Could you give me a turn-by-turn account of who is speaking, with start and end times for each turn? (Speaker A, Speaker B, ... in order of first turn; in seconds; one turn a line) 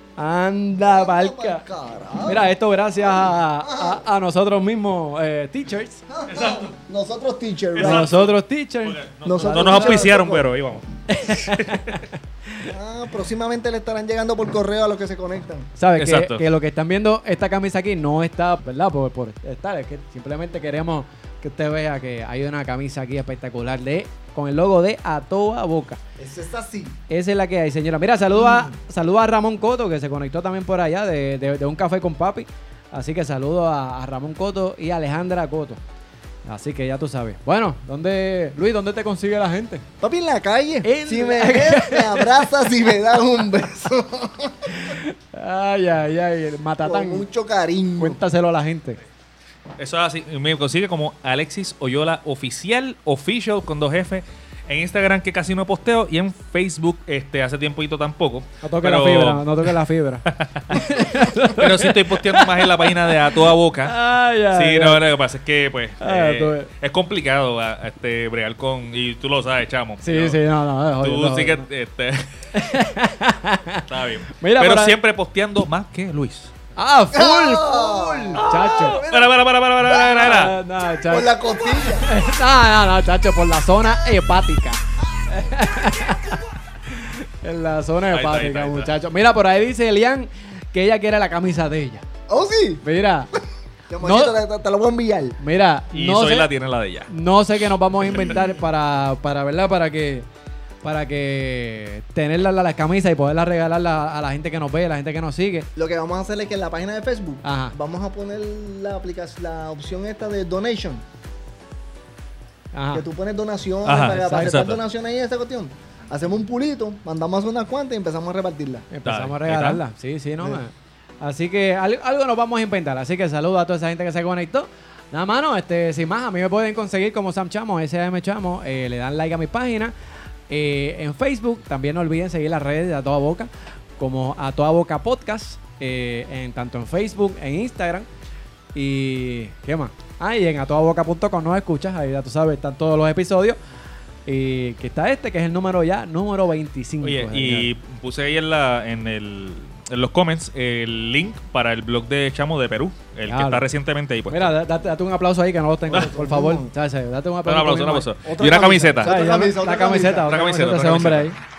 Speaker A: 0.2-1.6
Speaker B: 0.8-4.0
Speaker A: 2.2-6.0
Speaker B: 6.1-8.2
Speaker C: 6.3-6.7
Speaker C: 7.8-8.3
Speaker A: 7.8-10.1
Speaker C: 8.8-11.9
Speaker B: 9.2-10.5
Speaker A: 11.1-12.7
Speaker B: 12.7-15.7
Speaker A: 15.8-26.0
Speaker C: 16.0-16.4
Speaker B: 26.2-27.0
Speaker A: 27.1-35.8
Speaker B: 28.4-28.7
Speaker A: 36.4-39.8
Speaker B: 40.0-44.8
Speaker A: 40.8-42.5
Speaker A: 44.6-47.3
Speaker B: 46.8-48.2
Speaker A: 48.0-49.0
Speaker C: 49.8-61.0
Speaker A: 58.6-65.0
Speaker C: 61.5-64.0
Speaker C: 64.5-70.4
Speaker A: 66.0-66.7
Speaker A: 70.0-71.7
Speaker C: 71.0-72.2
Speaker A: 72.5-73.8
Speaker C: 73.8-76.5
Speaker A: 74.4-74.9
Speaker A: 76.8-79.0
Speaker B: 77.1-79.5
Speaker C: 78.4-80.6
Speaker A: 80.0-81.4
Speaker B: 81.1-82.2
Speaker A: 82.0-92.0
Speaker C: 88.1-88.9
Speaker B: 92.3-92.8
Speaker A: 92.8-93.3
Speaker B: 93.9-95.4
Speaker A: 94.0-94.4
Speaker A: 95.4-96.5
Speaker C: 95.9-97.1
Speaker A: 97.1-100.3
Speaker A: 100.8-105.7
Speaker B: 105.8-111.0
Speaker A: 107.4-107.7
Speaker A: 112.7-113.0
Speaker B: 112.9-118.9
Speaker C: 113.8-114.8
Speaker A: 114.2-114.7
Speaker A: 118.9-129.9
Speaker C: 119.0-119.8
Speaker A: 130.5-138.1
Speaker A: 138.7-143.6
Speaker A: 144.3-147.7
Speaker C: 147.0-154.5
Speaker A: 153.3-153.7
Speaker A: 154.3-158.1
Speaker B: 155.9-156.7
Speaker C: 157.4-159.2
Speaker B: 158.2-160.3
Speaker A: 159.0-161.4
Speaker C: 160.2-161.3